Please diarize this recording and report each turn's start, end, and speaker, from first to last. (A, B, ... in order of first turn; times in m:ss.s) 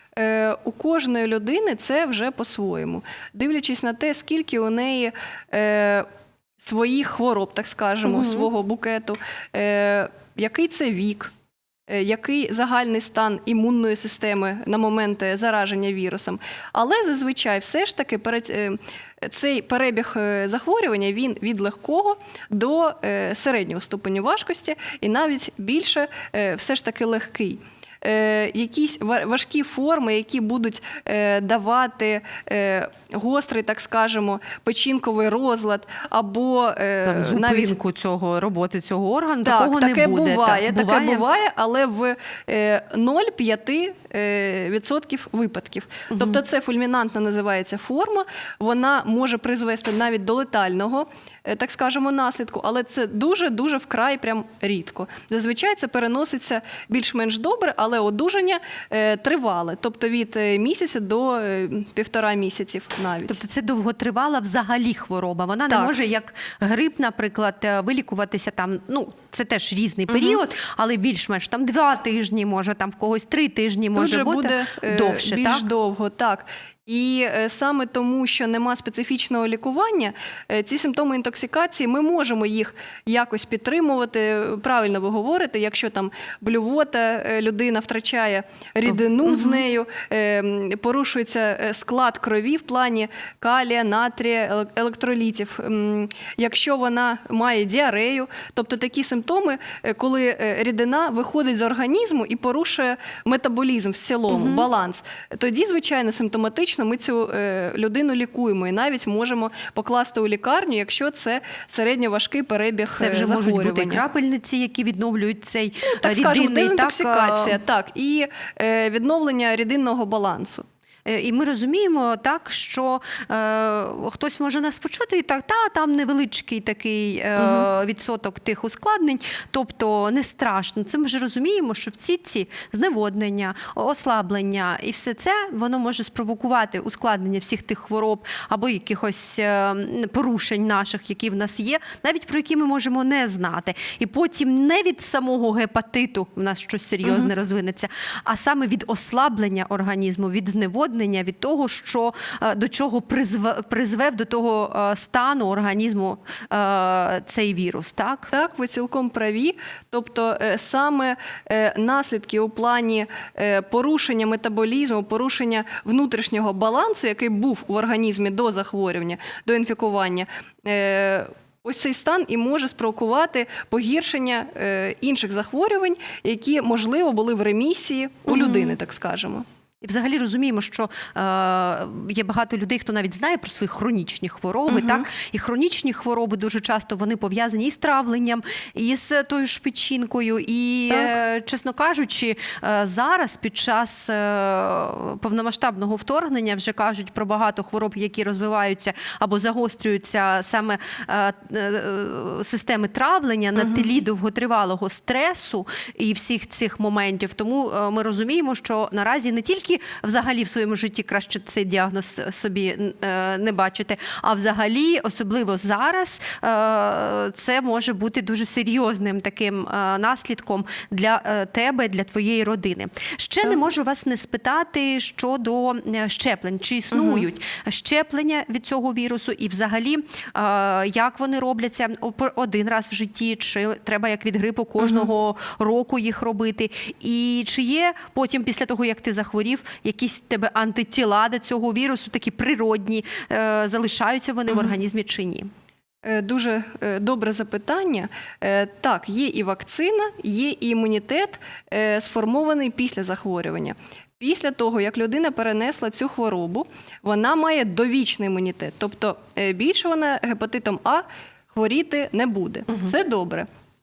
0:00.2-0:06.1 A
0:06.6-0:11.3 A
0:08.0-0:08.5 B
0:11.9-0:37.8 A
0:37.0-0:41.2 B
0:39.4-1:03.4 A
0:46.1-0:46.4 B
1:03.3-1:15.6 B
1:10.1-1:10.4 A
1:14.0-1:54.0 A
1:28.9-1:29.6 B
1:44.3-1:44.7 B
1:52.9-1:57.6 B
1:55.8-2:00.7 A
2:01.1-2:38.3 B
2:07.4-2:07.7 A
2:27.0-2:27.3 A
2:38.3-2:59.5 A
2:58.3-2:58.8 B
2:59.8-4:05.5 B
3:04.7-3:05.1 A
3:23.6-3:23.8 A
3:46.9-3:47.2 A
3:54.8-3:55.1 A
4:06.0-4:23.5 A